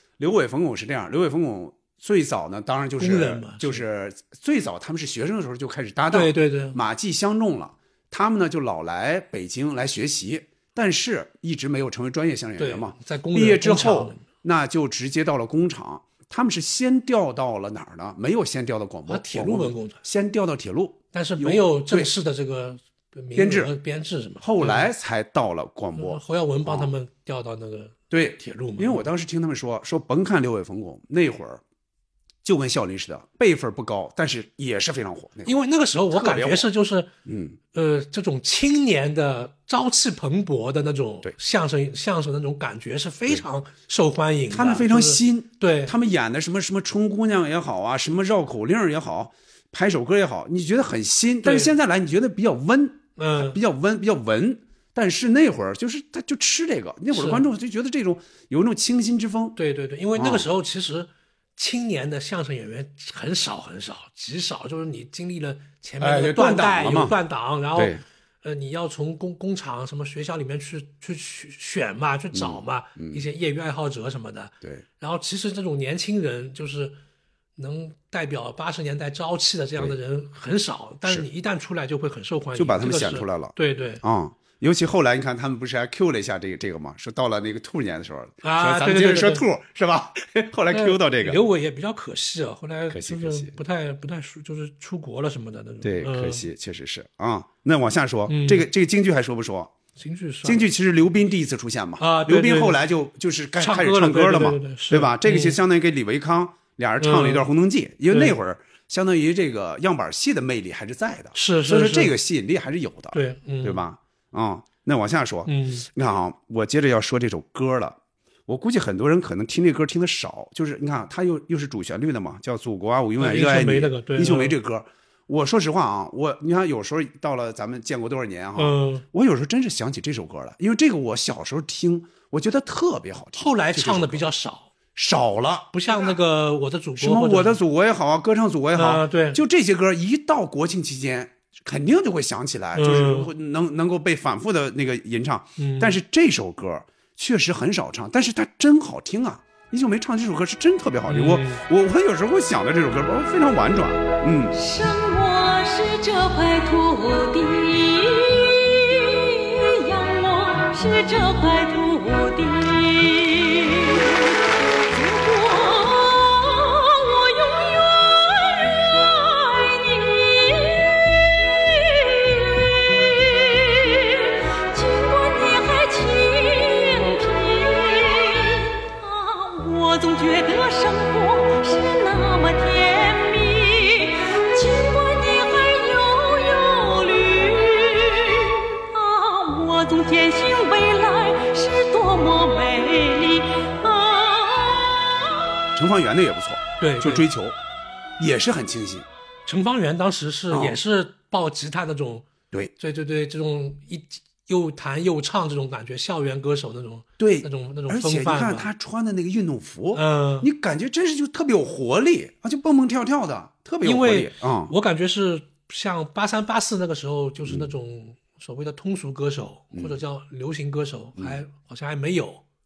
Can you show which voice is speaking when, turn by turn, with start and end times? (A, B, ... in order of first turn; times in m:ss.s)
0:00.2-0:22.1 A
0:03.0-0:03.8 B
0:06.1-0:06.8 B
0:12.6-0:14.2 B
0:19.1-0:20.0 B
0:21.1-0:24.9 B
0:23.4-0:23.7 A
0:24.4-0:26.9 A
0:26.0-0:29.1 B
0:28.1-0:31.6 A
0:32.4-0:35.5 A
0:35.4-0:37.1 B
0:36.1-0:36.7 A
0:37.2-0:37.6 A
0:37.7-0:46.0 B
0:44.5-0:59.6 A
0:51.4-0:51.7 B
0:53.2-0:53.6 B
0:57.1-0:57.4 B
0:59.6-1:17.0 B
1:00.2-1:00.5 A
1:06.0-1:07.2 A
1:07.7-1:08.0 A
1:12.3-1:13.2 A
1:17.6-1:24.0 B
1:22.6-1:31.4 A
1:28.4-1:29.4 B
1:30.7-1:36.5 B
1:32.9-1:33.5 A
1:35.8-1:39.7 A
1:38.3-1:38.7 B
1:40.0-1:40.7 B
1:40.4-2:14.3 A
1:42.0-1:42.8 B
1:43.6-1:45.6 B
1:47.0-1:47.5 B
1:48.1-1:48.4 B
1:51.3-1:52.1 B
1:53.1-1:53.8 B
1:55.5-1:55.9 B
2:03.2-2:04.5 B
2:08.6-2:09.0 B
2:13.4-2:14.7 B
2:15.0-2:16.2 A
2:15.7-2:17.6 B
2:17.0-2:34.6 A
2:18.7-2:19.4 B
2:22.8-2:23.3 B
2:25.6-2:26.0 B
2:31.1-2:31.6 B
2:34.5-2:44.2 C
2:44.9-3:15.1 C
3:15.7-3:17.6 A
3:16.8-3:17.3 B
3:18.2-3:19.0 A
3:19.4-3:28.7 B
3:20.5-3:20.8 A
3:27.2-3:34.7 A
3:29.9-3:30.5 B
3:33.8-3:42.4 B
3:37.4-3:37.7 A
3:39.7-3:40.0 A